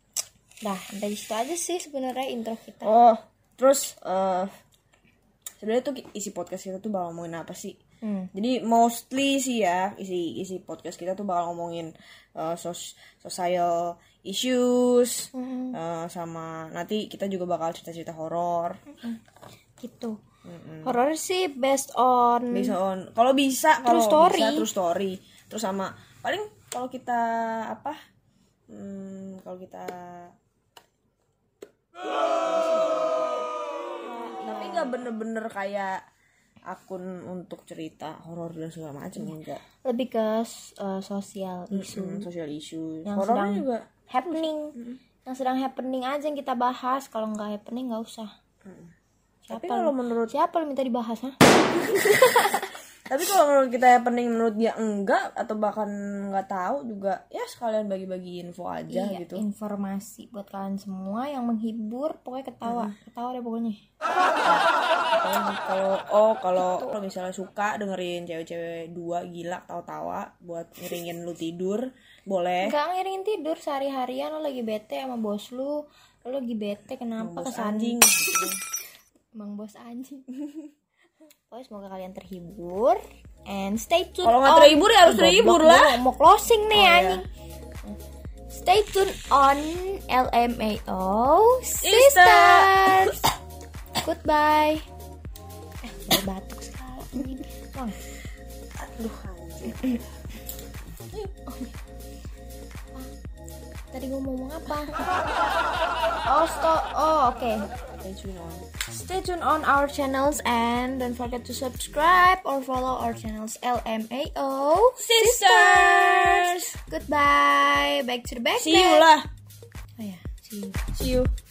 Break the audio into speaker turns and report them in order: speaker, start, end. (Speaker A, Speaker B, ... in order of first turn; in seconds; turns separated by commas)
Speaker A: 0.6-2.9, Speaker B: 2.8-4.5, Speaker B: 5.6-7.8, Speaker A: 8.0-8.3, Speaker B: 8.3-18.8, Speaker A: 15.3-15.8, Speaker A: 18.9-19.2, Speaker A: 19.8-20.2, Speaker B: 20.5-21.0, Speaker A: 20.8-22.8, Speaker B: 22.5-28.0, Speaker A: 23.8-24.7, Speaker B: 28.7-30.3, Speaker B: 32.4-33.5, Speaker A: 34.0-35.0, Speaker B: 34.3-36.0, Speaker B: 36.7-39.6, Speaker A: 39.9-42.3, Speaker B: 41.7-43.9, Speaker A: 43.1-44.8, Speaker A: 45.3-48.3, Speaker B: 48.6-48.9, Speaker A: 49.5-52.7, Speaker B: 49.5-50.3, Speaker B: 51.8-52.5, Speaker B: 53.1-59.5, Speaker A: 58.9-63.8, Speaker B: 62.6-62.9, Speaker B: 64.4-72.8, Speaker A: 72.6-78.5, Speaker B: 77.2-78.6, Speaker A: 79.4-80.3, Speaker A: 81.5-87.3, Speaker B: 84.2-86.0, Speaker B: 86.7-87.2, Speaker A: 88.5-93.2, Speaker B: 91.8-93.2, Speaker A: 94.0-94.9, Speaker A: 95.8-98.0, Speaker B: 98.8-100.0, Speaker A: 101.2-101.7, Speaker A: 103.9-105.1, Speaker A: 106.3-107.7, Speaker B: 108.0-108.7, Speaker A: 108.9-119.1, Speaker B: 115.0-116.7, Speaker B: 118.6-119.3, Speaker A: 120.0-120.8, Speaker B: 120.9-121.3